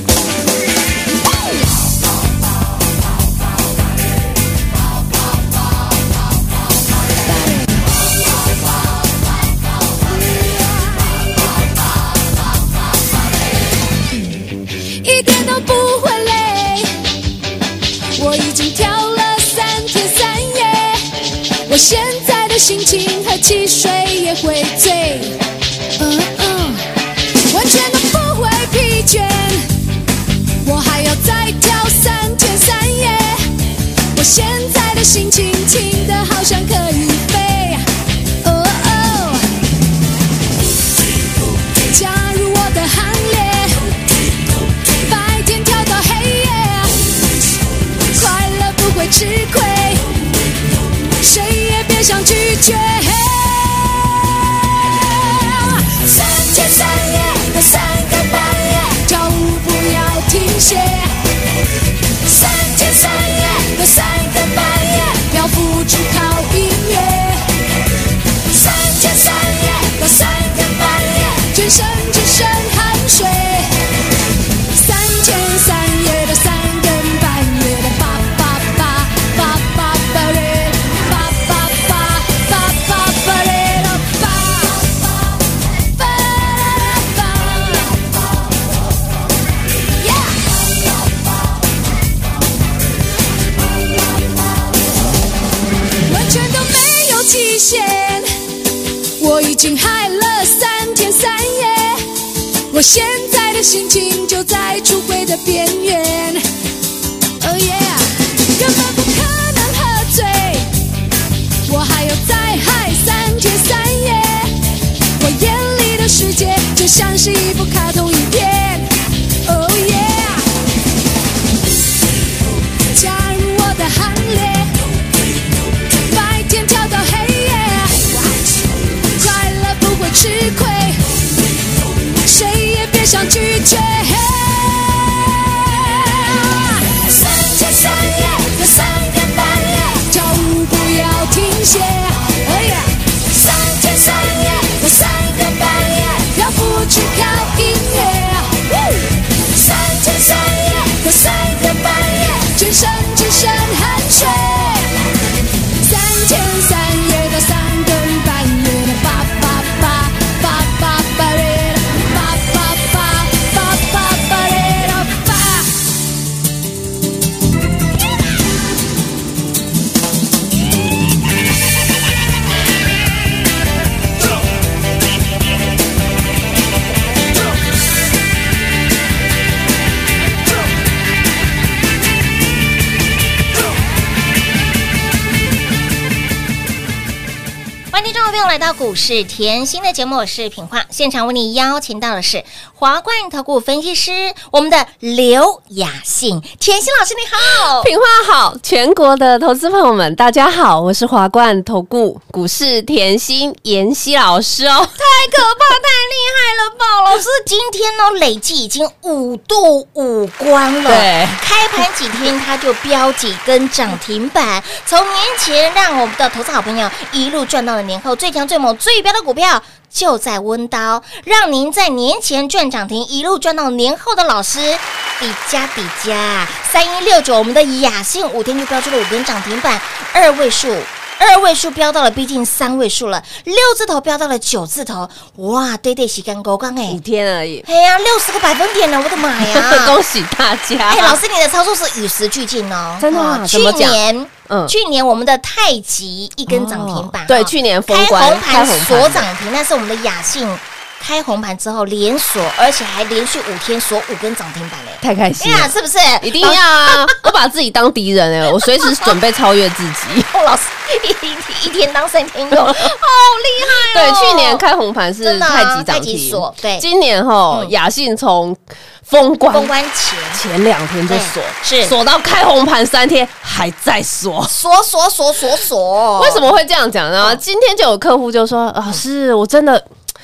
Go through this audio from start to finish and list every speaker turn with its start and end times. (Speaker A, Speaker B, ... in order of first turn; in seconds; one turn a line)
Speaker A: 10.3-11.0
Speaker A: 15.0-16.9
Speaker A: 18.2-21.1
Speaker A: 21.7-25.4
Speaker A: 26.0-26.9
Speaker A: 27.5-29.6
Speaker A: 30.6-33.4
Speaker A: 34.1-37.8
Speaker A: 38.4-39.5
Speaker A: 41.9-43.9
Speaker A: 45.0-47.0
Speaker A: 48.1-50.0
Speaker A: 51.2-54.3
Speaker A: 54.9-61.1
Speaker A: 62.3-67.4
Speaker A: 68.5-73.7
Speaker A: 74.7-85.0
Speaker A: 86.0-88.1
Speaker A: 90.0-90.4
Speaker A: 96.1-98.3
Speaker A: 99.2-102.0
Speaker A: 102.7-106.4
Speaker A: 107.4-110.7
Speaker A: 111.7-114.5
Speaker A: 115.2-118.9
Speaker A: 119.5-120.5
Speaker A: 122.9-124.7
Speaker A: 126.1-128.2
Speaker A: 129.2-131.0
Speaker A: 132.2-148.8
Speaker A: 149.5-154.9
Speaker A: 155.8-165.7
Speaker B: 187.9-197.9
Speaker C: 197.8-205.0
Speaker B: 205.0-237.0
Speaker C: 210.9-211.4
Speaker C: 236.9-237.7
Speaker B: 237.7-240.0
Speaker C: 239.4-241.2
Speaker B: 240.9-257.3
Speaker C: 243.0-244.8
Speaker C: 246.5-249.3
Speaker C: 255.0-260.3
Speaker B: 258.8-259.1
Speaker B: 260.3-264.6
Speaker C: 262.5-262.9
Speaker C: 263.9-269.7
Speaker B: 265.2-266.9
Speaker B: 269.5-270.4
Speaker C: 270.3-274.5
Speaker B: 271.1-271.9
Speaker B: 274.5-276.5
Speaker C: 276.2-279.9